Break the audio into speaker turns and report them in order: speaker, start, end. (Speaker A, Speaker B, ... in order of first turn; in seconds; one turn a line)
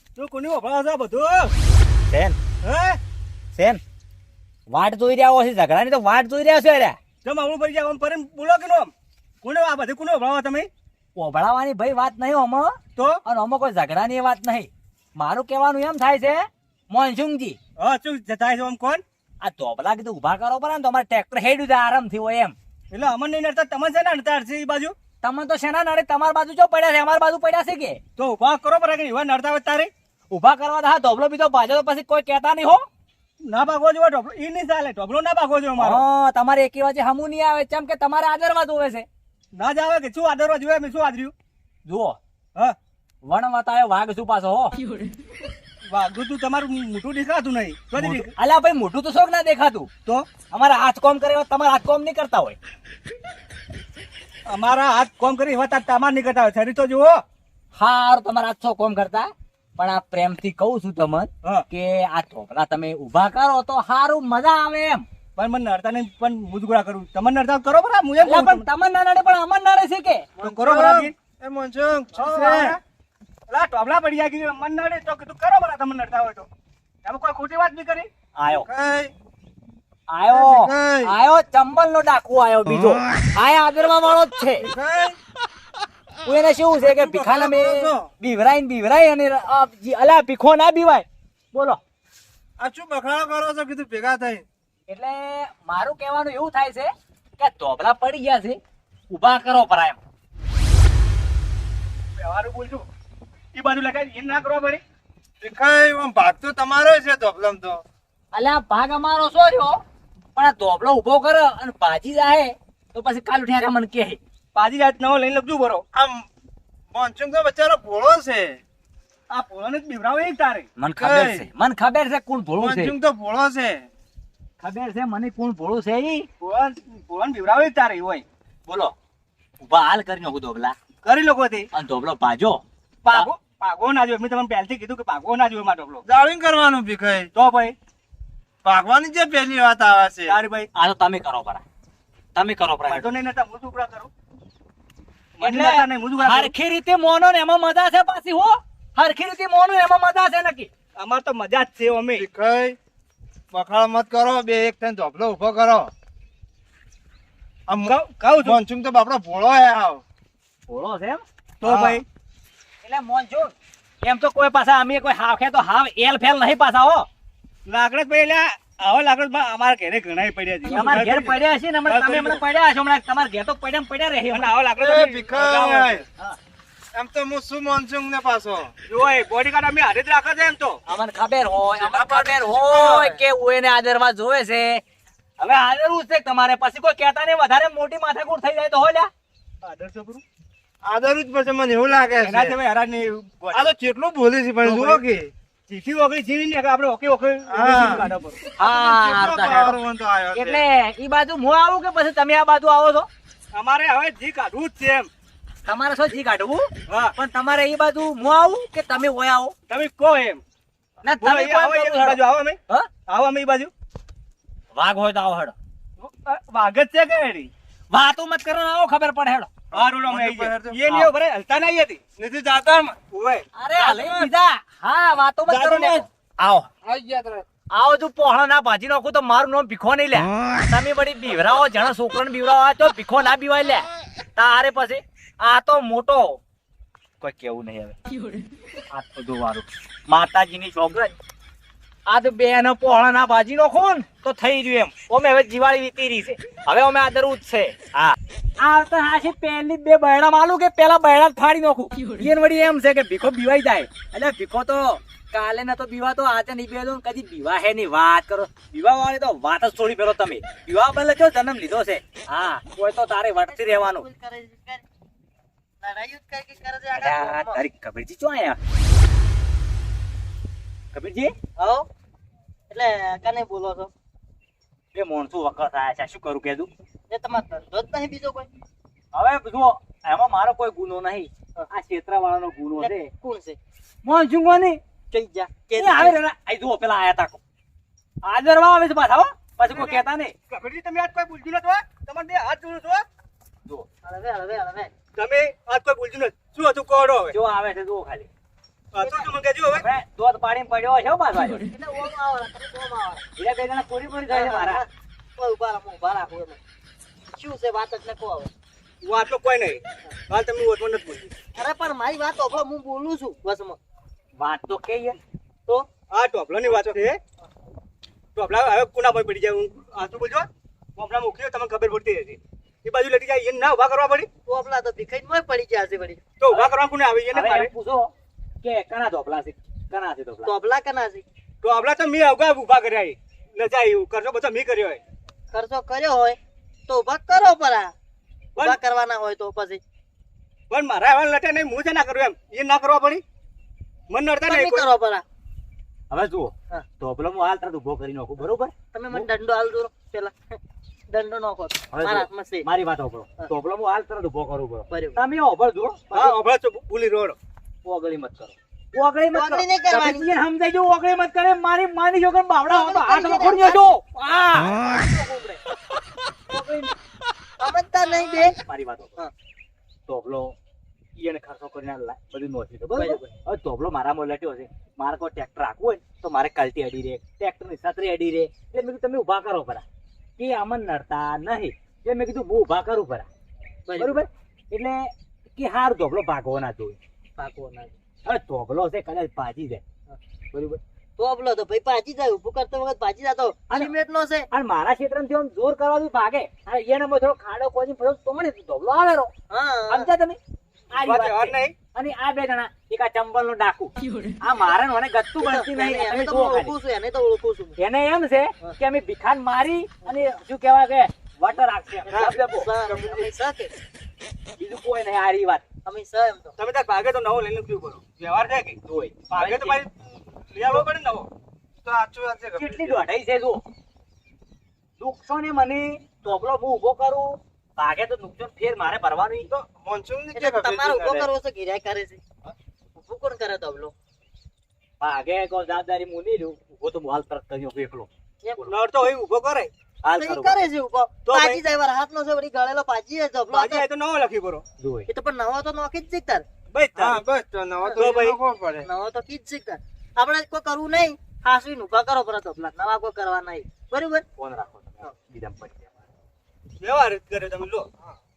Speaker A: 0.2-1.5
Speaker B: 2.1-2.4
Speaker A: 2.6-3.0
Speaker B: 3.5-3.8
Speaker B: 4.7-7.0
Speaker A: 7.2-10.7
Speaker B: 11.2-17.6
Speaker A: 13.0-13.2
Speaker A: 17.8-19.0
Speaker B: 19.4-22.6
Speaker A: 22.9-24.9
Speaker B: 25.2-28.0
Speaker A: 28.2-29.9
Speaker B: 30.3-32.9
Speaker A: 33.4-36.0
Speaker B: 35.8-39.1
Speaker A: 39.5-41.3
Speaker B: 41.9-42.2
Speaker B: 43.2-44.9
Speaker A: 45.9-48.3
Speaker B: 48.0-49.9
Speaker B: 50.5-52.6
Speaker A: 54.5-57.2
Speaker B: 57.8-65.0
Speaker A: 65.4-68.7
Speaker B: 68.2-70.3
Speaker A: 70.4-71.1
Speaker C: 70.4-72.8
Speaker A: 72.1-72.8
Speaker A: 73.5-76.5
Speaker A: 77.0-78.1
Speaker B: 78.3-78.7
Speaker C: 78.5-79.1
Speaker B: 80.1-84.7
Speaker C: 80.3-81.2
Speaker C: 84.6-85.2
Speaker B: 86.2-91.8
Speaker C: 86.8-88.1
Speaker C: 92.6-94.5
Speaker B: 94.9-98.6
Speaker B: 99.1-100.0
Speaker A: 102.2-102.9
Speaker A: 103.5-104.8
Speaker C: 105.4-107.8
Speaker B: 108.3-109.8
Speaker B: 110.4-114.2
Speaker A: 114.5-115.8
Speaker C: 115.9-116.3
Speaker C: 116.9-118.6
Speaker A: 119.3-120.7
Speaker B: 120.8-122.9
Speaker C: 121.0-121.5
Speaker C: 122.6-123.9
Speaker B: 124.6-126.3
Speaker A: 126.4-128.2
Speaker B: 128.7-128.9
Speaker B: 129.6-130.8
Speaker A: 131.0-131.7
Speaker B: 131.7-133.3
Speaker A: 133.0-136.0
Speaker C: 136.1-137.3
Speaker A: 137.3-137.8
Speaker C: 138.6-140.4
Speaker A: 140.3-140.7
Speaker B: 140.7-141.6
Speaker B: 142.3-143.1
Speaker A: 142.9-144.1
Speaker A: 145.4-146.5
Speaker B: 145.4-150.7
Speaker A: 151.0-152.3
Speaker C: 152.2-152.8
Speaker C: 153.5-155.9
Speaker C: 157.7-160.0
Speaker A: 157.8-158.6
Speaker B: 160.7-161.2
Speaker A: 161.6-162.1
Speaker C: 161.6-162.0
Speaker B: 162.8-167.1
Speaker A: 167.7-172.4
Speaker B: 170.7-174.5
Speaker A: 174.3-176.0
Speaker C: 174.8-176.1
Speaker C: 176.9-178.7
Speaker A: 178.9-180.8
Speaker B: 180.9-184.8
Speaker C: 181.8-183.2
Speaker B: 185.4-189.1
Speaker A: 189.6-190.2
Speaker C: 190.8-192.6
Speaker A: 192.2-193.7
Speaker C: 193.5-195.3
Speaker A: 194.6-195.0
Speaker A: 195.7-198.4
Speaker C: 197.5-198.1
Speaker B: 198.6-199.8
Speaker C: 198.6-200.6
Speaker B: 200.3-203.1
Speaker A: 203.5-205.1
Speaker B: 205.7-209.6
Speaker A: 206.9-207.1
Speaker A: 209.7-210.4
Speaker B: 211.0-212.9
Speaker A: 211.2-213.7
Speaker B: 214.7-215.6
Speaker A: 216.0-217.5
Speaker B: 217.9-219.5
Speaker C: 219.7-220.8
Speaker A: 219.7-222.0
Speaker C: 222.2-223.0
Speaker A: 223.1-224.3
Speaker B: 223.6-226.7
Speaker A: 225.5-226.0
Speaker C: 226.9-227.4
Speaker B: 227.7-236.4
Speaker B: 237.2-238.0
Speaker B: 238.9-241.2
Speaker B: 242.1-264.1
Speaker D: 263.5-264.8
Speaker D: 265.8-267.6
Speaker B: 266.9-268.6
Speaker B: 270.9-271.3
Speaker D: 271.6-271.9
Speaker D: 272.7-273.9
Speaker B: 274.9-276.7
Speaker D: 277.1-278.5
Speaker B: 279.1-283.1
Speaker D: 282.8-283.6
Speaker B: 284.0-284.8
Speaker D: 285.1-286.2
Speaker B: 285.8-287.4
Speaker B: 288.2-290.3
Speaker A: 289.6-293.1
Speaker D: 294.0-294.9
Speaker A: 295.2-297.4
Speaker B: 297.3-298.3
Speaker A: 298.9-299.9
Speaker D: 299.0-299.3
Speaker B: 299.7-301.6
Speaker D: 301.6-303.2
Speaker B: 303.4-304.8
Speaker D: 304.3-306.6
Speaker D: 307.4-308.5
Speaker A: 309.0-311.3
Speaker D: 311.6-313.8
Speaker B: 314.4-315.2
Speaker A: 316.1-317.2
Speaker D: 316.7-316.9
Speaker A: 318.4-324.3
Speaker D: 324.5-326.2
Speaker A: 326.4-327.7
Speaker B: 327.3-330.5
Speaker D: 330.4-331.2
Speaker A: 331.6-335.0
Speaker D: 335.5-337.9
Speaker D: 338.6-339.8
Speaker A: 340.7-343.2
Speaker A: 344.1-344.9
Speaker D: 344.4-345.2
Speaker B: 346.1-349.3
Speaker D: 348.9-352.7
Speaker B: 351.9-356.4
Speaker D: 354.9-355.2
Speaker A: 356.1-357.4
Speaker B: 357.9-365.5
Speaker D: 359.3-360.3
Speaker D: 362.7-363.9
Speaker D: 365.2-365.5
Speaker B: 366.5-366.9
Speaker D: 367.6-368.6
Speaker B: 368.2-369.2
Speaker B: 370.1-370.6
Speaker B: 371.2-379.9
Speaker D: 372.9-373.3
Speaker B: 380.4-383.3
Speaker D: 383.9-384.2
Speaker B: 384.0-387.0
Speaker D: 387.4-387.9
Speaker B: 388.2-389.8
Speaker B: 390.5-390.8
Speaker D: 391.2-394.5
Speaker B: 394.5-399.3
Speaker D: 399.5-400.1
Speaker B: 399.9-400.4
Speaker B: 400.9-406.7
Speaker A: 401.0-401.8
Speaker D: 405.4-407.8
Speaker B: 407.8-412.7
Speaker D: 412.1-413.7
Speaker B: 414.6-415.6
Speaker D: 415.9-416.6
Speaker A: 416.6-418.8
Speaker B: 418.9-419.8
Speaker A: 419.3-421.3
Speaker C: 421.8-423.0
Speaker B: 422.6-423.6
Speaker B: 425.0-429.5
Speaker C: 429.5-431.3
Speaker D: 430.3-432.2
Speaker D: 433.0-433.9
Speaker B: 435.0-438.1
Speaker D: 438.4-439.0
Speaker A: 438.7-439.7
Speaker B: 440.0-440.6
Speaker D: 440.1-443.9
Speaker A: 441.3-441.6
Speaker A: 443.5-444.6
Speaker B: 444.8-445.1
Speaker D: 445.1-446.4
Speaker A: 446.7-447.2
Speaker C: 447.0-448.9
Speaker A: 448.0-448.4
Speaker D: 448.8-454.2
Speaker B: 454.4-456.0
Speaker A: 456.8-457.9